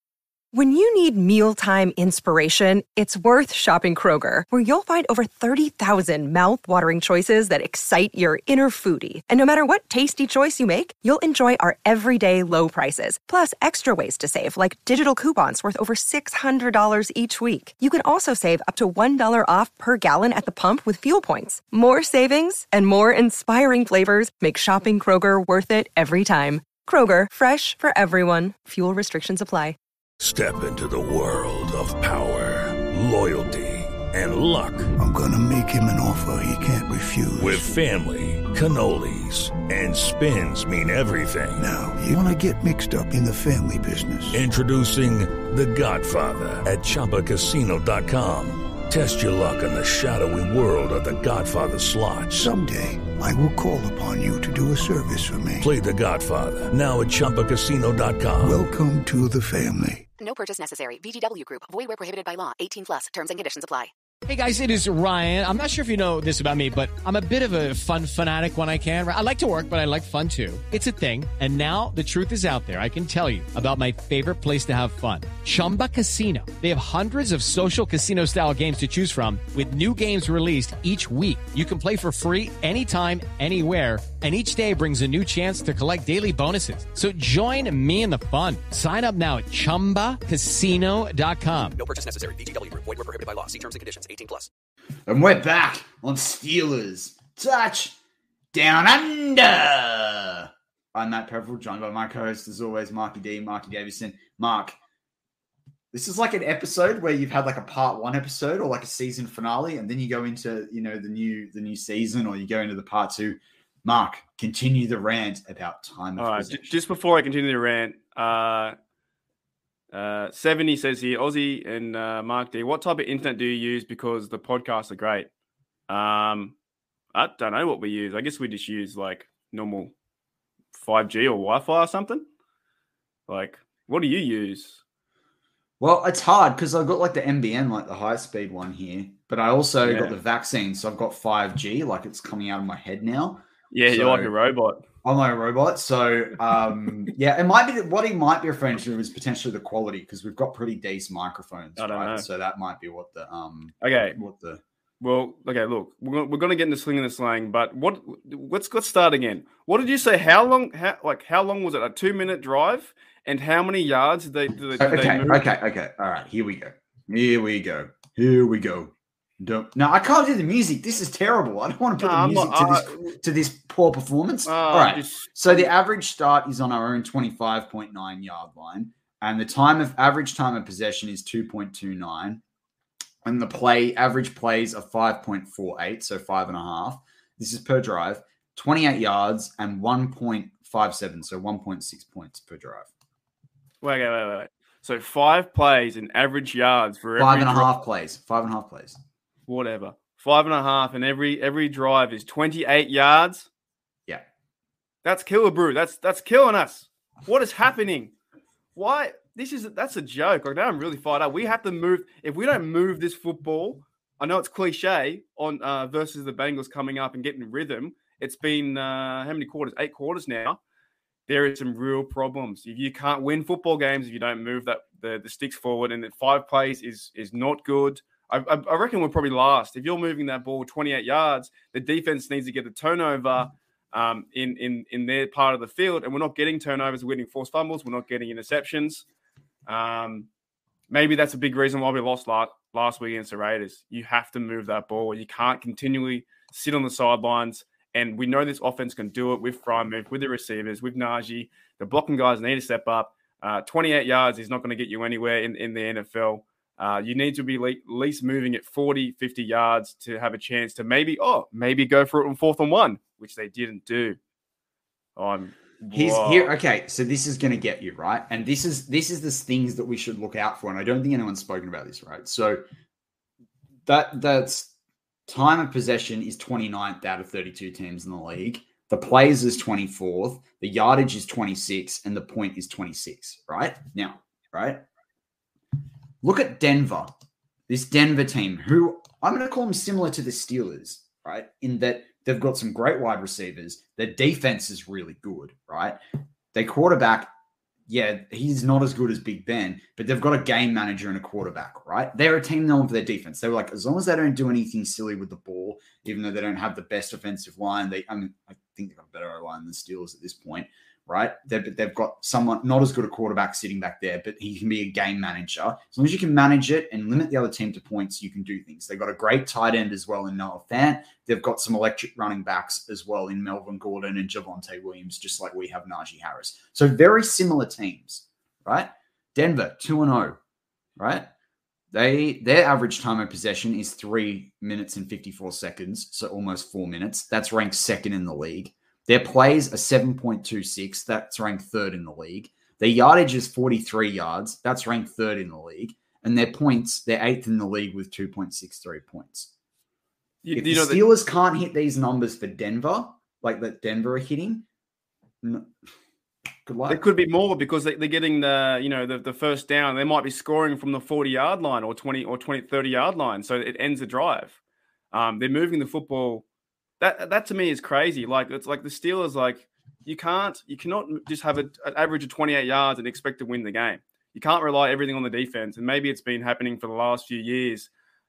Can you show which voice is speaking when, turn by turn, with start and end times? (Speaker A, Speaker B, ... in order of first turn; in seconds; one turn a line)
Speaker A: 0.5-29.8
Speaker B: 30.2-34.9
Speaker C: 35.0-37.7
Speaker B: 37.4-41.6
Speaker C: 41.5-44.5
Speaker B: 44.3-52.5
Speaker C: 52.3-55.7
Speaker B: 55.6-58.6
Speaker C: 58.4-60.0
Speaker D: 60.2-63.9
Speaker E: 64.3-91.8
Speaker F: 91.8-94.5
Speaker G: 95.1-98.0
Speaker G: 98.5-104.8
Speaker G: 105.9-116.7
Speaker H: 116.2-118.7
Speaker H: 119.9-125.3
Speaker H: 125.9-126.5
Speaker H: 127.1-129.9
Speaker H: 130.7-132.2
Speaker H: 133.3-134.8
Speaker G: 135.8-144.3
Speaker H: 139.8-140.2
Speaker H: 143.7-144.8
Speaker G: 145.0-154.6
Speaker H: 151.8-152.2
Speaker H: 153.8-154.2
Speaker H: 155.0-165.5
Speaker G: 164.8-182.4
Speaker H: 172.0-173.1
Speaker H: 174.4-175.7
Speaker G: 183.2-192.9
Speaker H: 193.8-197.8
Speaker G: 197.2-199.0
Speaker H: 199.5-203.5
Speaker H: 205.0-208.1
Speaker H: 208.7-220.6
Speaker H: 221.3-239.1
Speaker H: 239.7-240.3
Speaker H: 240.9-264.2
Speaker H: 265.1-266.6
Speaker G: 265.9-272.6
Speaker G: 273.9-274.7
Speaker G: 275.3-284.8
Speaker G: 286.2-287.1
Speaker G: 287.7-296.0
Speaker G: 296.5-297.3
Speaker G: 297.9-330.4
Speaker G: 331.0-331.3
Speaker G: 331.9-349.5
Speaker H: 350.4-351.0
Speaker G: 350.5-354.6
Speaker G: 355.4-355.7
Speaker G: 356.6-357.0
Speaker H: 356.9-364.6
Speaker H: 365.1-366.4
Speaker H: 367.0-377.9